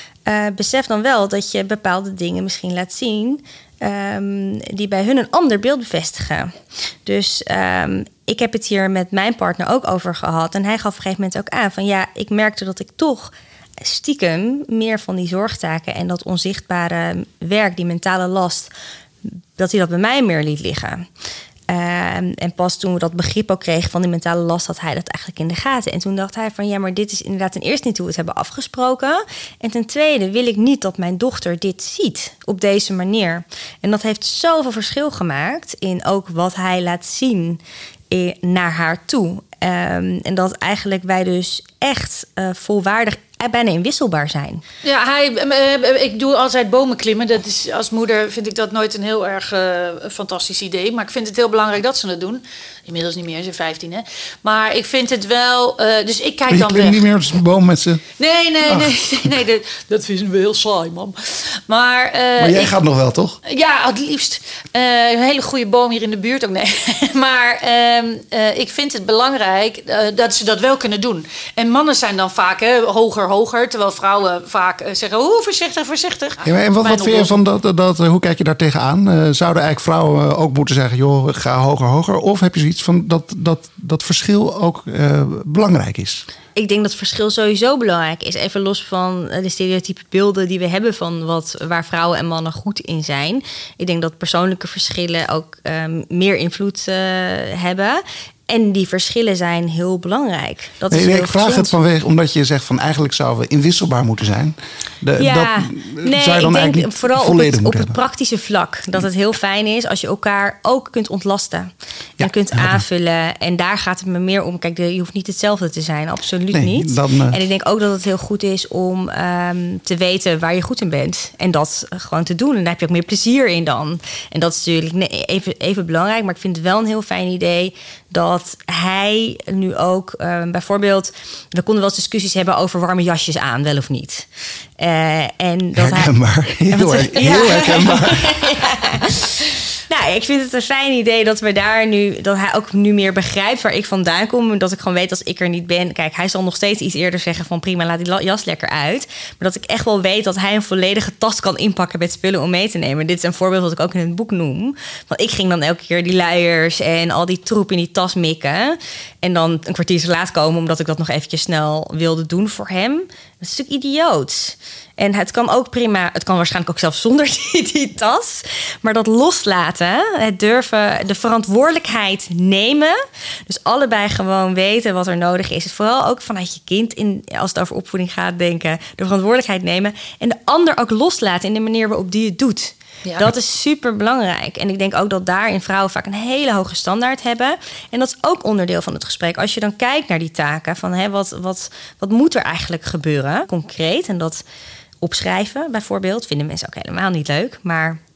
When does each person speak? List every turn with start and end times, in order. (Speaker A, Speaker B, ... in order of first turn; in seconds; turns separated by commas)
Speaker A: 0.2-18.7, Speaker A: 19.2-21.1, Speaker A: 21.7-44.6, Speaker B: 44.8-57.0, Speaker C: 56.5-58.0, Speaker B: 58.2-62.8, Speaker C: 58.6-59.3, Speaker C: 62.4-63.4, Speaker B: 63.4-77.3, Speaker C: 76.4-86.2, Speaker A: 86.5-101.7, Speaker C: 100.9-108.0, Speaker A: 105.2-134.3, Speaker C: 112.2-112.8, Speaker C: 116.5-117.4, Speaker A: 134.8-136.1, Speaker C: 135.8-138.8, Speaker A: 136.7-194.4, Speaker A: 195.0-198.0